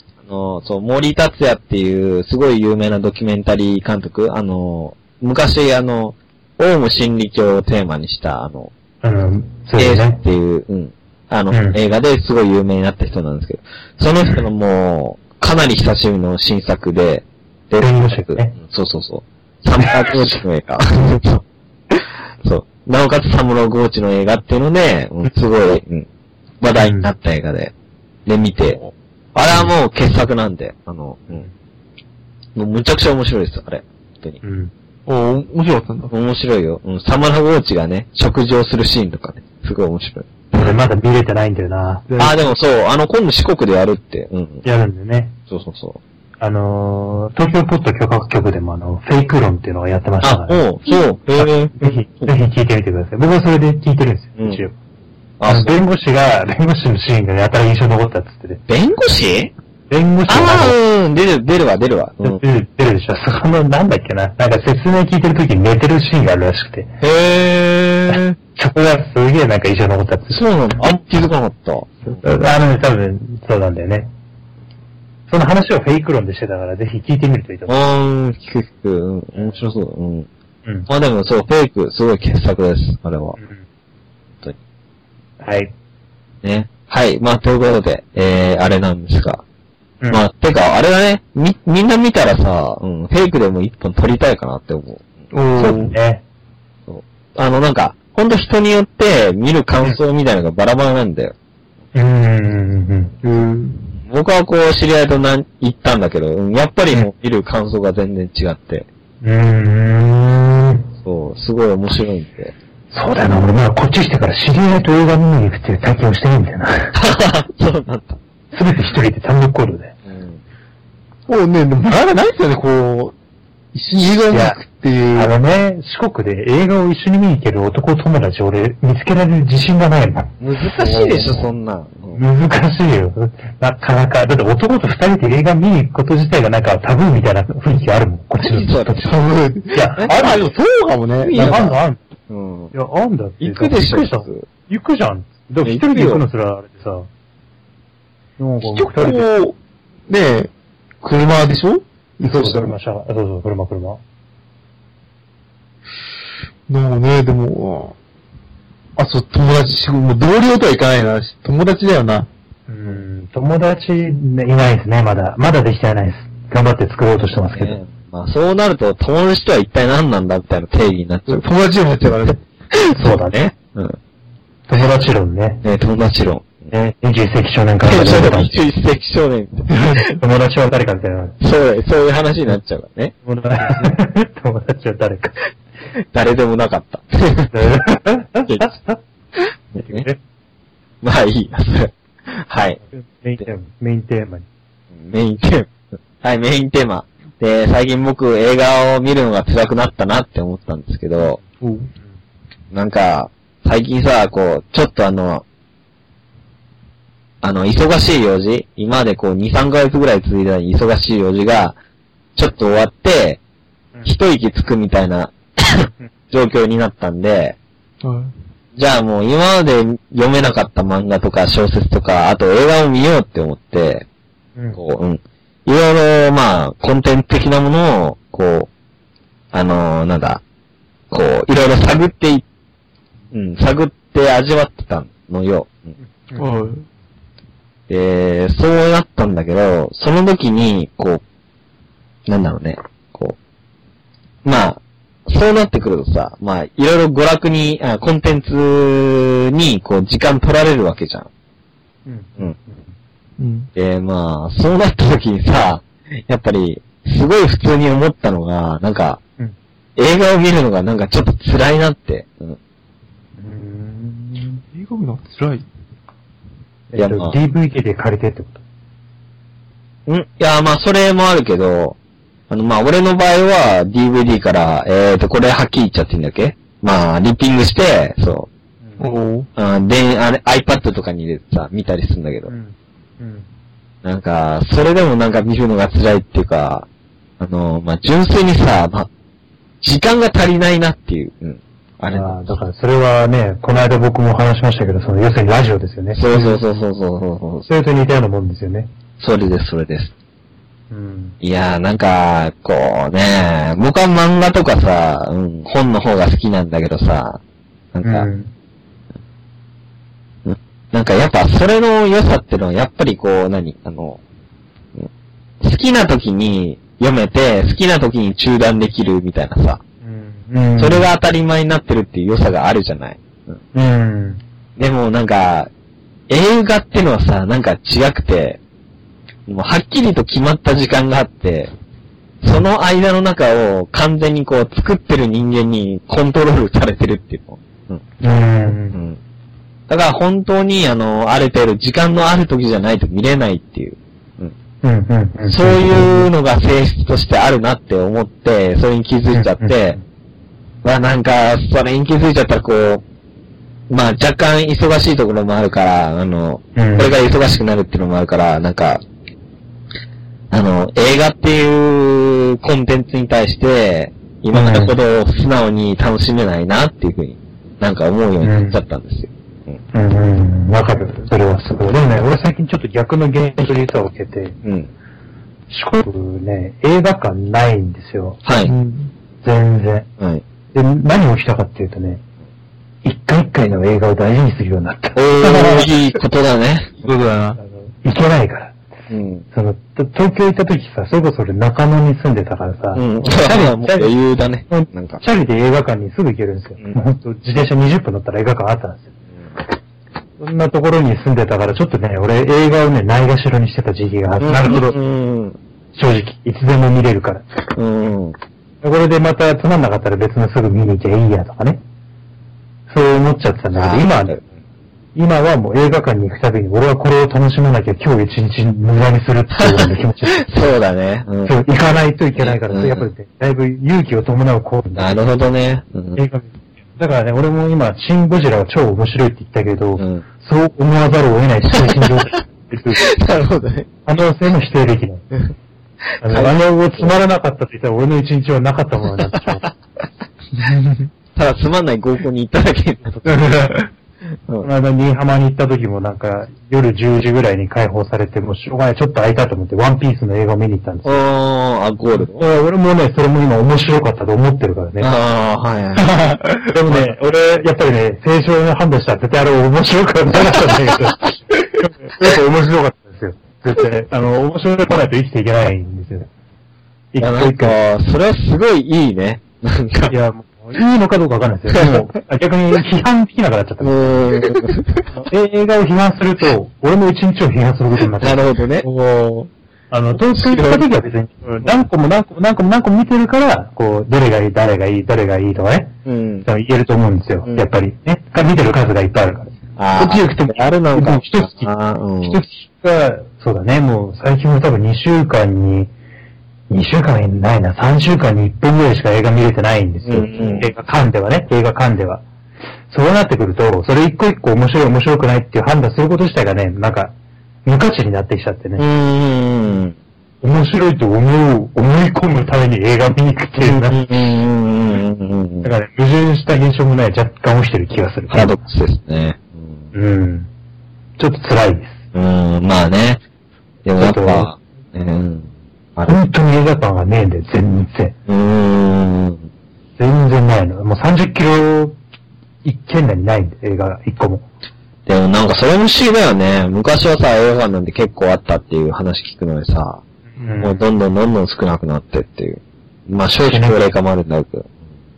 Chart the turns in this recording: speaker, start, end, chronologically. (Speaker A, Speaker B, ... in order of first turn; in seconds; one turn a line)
Speaker A: 0.2-8.7
Speaker B: 9.0-10.2
Speaker A: 9.8-26.1
Speaker B: 11.5-11.8
Speaker B: 17.8-18.6
Speaker B: 19.9-20.3
Speaker A: 26.6-27.7
Speaker B: 26.7-27.1
Speaker A: 28.2-28.8
Speaker A: 29.3-31.4
Speaker A: 32.5-34.4
Speaker B: 34.4-34.7
Speaker C: 35.1-36.1
Speaker A: 36.1-40.8
Speaker B: 40.5-42.0
Speaker C: 42.1-42.4
Speaker A: 42.2-44.6
Speaker B: 44.6-45.4
Speaker A: 45.5-46.0
Speaker B: 46.4-50.6
Speaker A: 50.2-52.3
Speaker B: 51.3-54.7
Speaker A: 54.4-54.6
Speaker A: 55.4-55.8
Speaker B: 55.5-58.6
Speaker A: 58.7-59.5
Speaker B: 59.9-60.8
Speaker A: 60.3-62.4
Speaker B: 62.2-66.9
Speaker A: 67.0-68.3
Speaker B: 68.1-70.4
Speaker A: 70.3-72.2
Speaker B: 72.2-74.1
Speaker B: 75.3-77.7
Speaker A: 77.7-80.3
Speaker A: 80.9-83.4
Speaker B: 85.4-85.7
Speaker A: 86.4-89.4
Speaker A: 90.1-95.0
Speaker C: 95.3-95.9
Speaker B: 95.5-96.2
Speaker A: 96.9-101.3
Speaker B: 101.9-103.2
Speaker C: 103.2-103.9
Speaker A: 104.0-108.9
Speaker B: 109.2-110.9
Speaker A: 111.0-112.5
Speaker B: 112.9-117.0
Speaker A: 116.9-118.2
Speaker B: 118.5-119.9
Speaker A: 120.1-120.4
Speaker C: 121.3-123.1
Speaker C: 123.7-125.3
Speaker B: 124.3-124.6
Speaker B: 125.1-131.5
Speaker A: 130.4-132.2
Speaker B: 132.1-139.2
Speaker A: 138.4-139.0
Speaker C: 139.0-141.7
Speaker B: 139.7-140.5
Speaker A: 141.2-141.8
Speaker B: 141.3-142.0
Speaker A: 142.3-142.7
Speaker B: 142.7-147.1
Speaker A: 143.4-144.5
Speaker A: 145.6-146.2
Speaker B: 148.4-149.3
Speaker C: 148.6-149.6
Speaker C: 150.1-150.5
Speaker C: 151.0-152.7
Speaker B: 152.2-154.0
Speaker C: 156.7-157.9
Speaker C: 159.0-162.3
Speaker B: 162.7-167.8
Speaker A: 167.5-171.5
Speaker C: 171.3-172.4
Speaker A: 172.8-174.0
Speaker B: 172.9-173.5
Speaker B: 174.7-175.6
Speaker A: 175.6-176.7
Speaker B: 176.7-178.6
Speaker A: 177.8-180.2
Speaker C: 179.7-180.0
Speaker B: 180.2-181.4
Speaker A: 181.4-183.1
Speaker B: 183.2-185.4
Speaker A: 185.9-187.5
Speaker B: 187.5-189.0
Speaker A: 188.5-188.7
Speaker A: 189.7-190.1
Speaker B: 189.8-190.2
Speaker A: 191.0-192.8
Speaker B: 192.9-194.4
Speaker A: 195.0-195.7
Speaker A: 196.2-201.4
Speaker C: 201.6-201.9
Speaker A: 202.7-205.4
Speaker A: 207.4-211.8
Speaker A: 212.3-213.4
Speaker A: 214.0-217.6
Speaker C: 218.0-218.3
Speaker A: 218.8-224.0
Speaker A: 224.7-228.7
Speaker A: 229.5-230.4
Speaker A: 231.1-232.4
Speaker A: 233.3-235.9
Speaker C: 236.4-236.8
Speaker A: 237.9-241.2
Speaker A: 242.3-243.4
Speaker A: 244.4-251.3
Speaker B: 252.1-252.8
Speaker C: 253.4-253.7
Speaker A: 253.8-259.2
Speaker A: 259.9-262.6
Speaker B: 263.4-264.6
Speaker C: 264.7-265.7
Speaker B: 266.9-268.6
Speaker A: 266.9-267.4
Speaker A: 270.1-272.0
Speaker A: 272.5-278.5
Speaker C: 279.0-279.5
Speaker A: 279.6-282.5
Speaker B: 282.5-283.5
Speaker A: 284.0-286.9
Speaker A: 287.4-289.1
Speaker A: 289.8-292.6
Speaker B: 292.1-296.5
Speaker A: 296.1-297.7
Speaker B: 297.7-298.9
Speaker A: 299.2-300.1
Speaker B: 300.9-301.4
Speaker A: 301.4-307.4
Speaker A: 307.9-308.3
Speaker B: 308.0-308.5
Speaker A: 310.4-314.2
Speaker A: 315.6-319.8
Speaker B: 320.0-321.1
Speaker A: 320.8-323.6
Speaker B: 323.7-324.4
Speaker A: 324.8-325.7
Speaker A: 326.3-328.6
Speaker A: 329.5-331.7
Speaker A: 332.4-338.0
Speaker B: 338.2-338.9
Speaker A: 338.8-339.2
Speaker A: 339.9-344.5
Speaker B: 344.8-346.3
Speaker A: 345.5-350.0
Speaker B: 349.3-350.0
Speaker A: 350.8-353.0
Speaker A: 353.9-359.0
Speaker B: 356.8-357.1
Speaker A: 360.5-369.8
Speaker B: 364.5-364.9
Speaker B: 368.4-368.8
Speaker B: 369.9-374.6
Speaker A: 374.6-374.9
Speaker B: 375.7-378.4
Speaker A: 378.4-378.7
Speaker C: 378.6-379.1
Speaker B: 379.4-380.1
Speaker B: 380.7-382.2
Speaker B: 383.0-385.2
Speaker A: 385.1-387.1
Speaker C: 385.4-385.9
Speaker C: 387.0-387.6
Speaker B: 387.6-388.7
Speaker A: 389.1-389.4
Speaker B: 389.5-394.1
Speaker A: 392.9-395.2
Speaker B: 394.7-399.1
Speaker B: 400.4-404.9
Speaker A: 404.4-405.6
Speaker B: 405.9-407.4
Speaker A: 407.7-408.4
Speaker B: 408.8-411.8
Speaker B: 412.9-414.4
Speaker A: 413.7-414.4
Speaker B: 415.1-420.6
Speaker A: 419.6-421.5
Speaker B: 421.4-425.2
Speaker A: 422.4-423.1
Speaker A: 425.0-426.2
Speaker B: 426.1-433.2
Speaker A: 430.0-430.2
Speaker A: 431.8-432.1
Speaker A: 433.0-433.9
Speaker B: 434.0-435.2
Speaker A: 436.2-437.1
Speaker B: 436.2-439.7
Speaker B: 440.6-440.9
Speaker A: 441.4-443.6
Speaker C: 443.2-443.9
Speaker B: 444.6-451.2
Speaker A: 451.0-452.4
Speaker B: 452.2-455.1
Speaker A: 455.0-456.1
Speaker C: 456.0-456.8
Speaker B: 456.7-466.3
Speaker B: 467.1-467.8
Speaker A: 467.2-470.1
Speaker B: 470.1-474.5
Speaker A: 471.7-472.0
Speaker A: 473.8-475.0
Speaker B: 475.1-478.5
Speaker A: 478.2-478.9
Speaker C: 478.9-479.5
Speaker B: 479.9-491.7
Speaker A: 480.3-480.8
Speaker A: 486.0-486.4
Speaker A: 489.8-492.4
Speaker B: 492.2-495.9
Speaker B: 496.7-502.2
Speaker A: 500.0-500.7
Speaker B: 502.9-508.8
Speaker A: 508.8-509.9
Speaker B: 510.4-514.1
Speaker A: 513.6-515.7
Speaker B: 515.6-518.6
Speaker A: 518.3-519.7
Speaker B: 519.9-520.5
Speaker B: 521.2-522.0
Speaker A: 522.1-523.2
Speaker A: 523.8-526.2
Speaker B: 524.0-524.5
Speaker B: 526.0-528.1
Speaker A: 528.3-529.4
Speaker B: 530.0-532.0
Speaker B: 532.6-534.4
Speaker A: 535.1-540.0
Speaker B: 540.4-540.9
Speaker A: 540.6-544.7
Speaker B: 543.4-543.8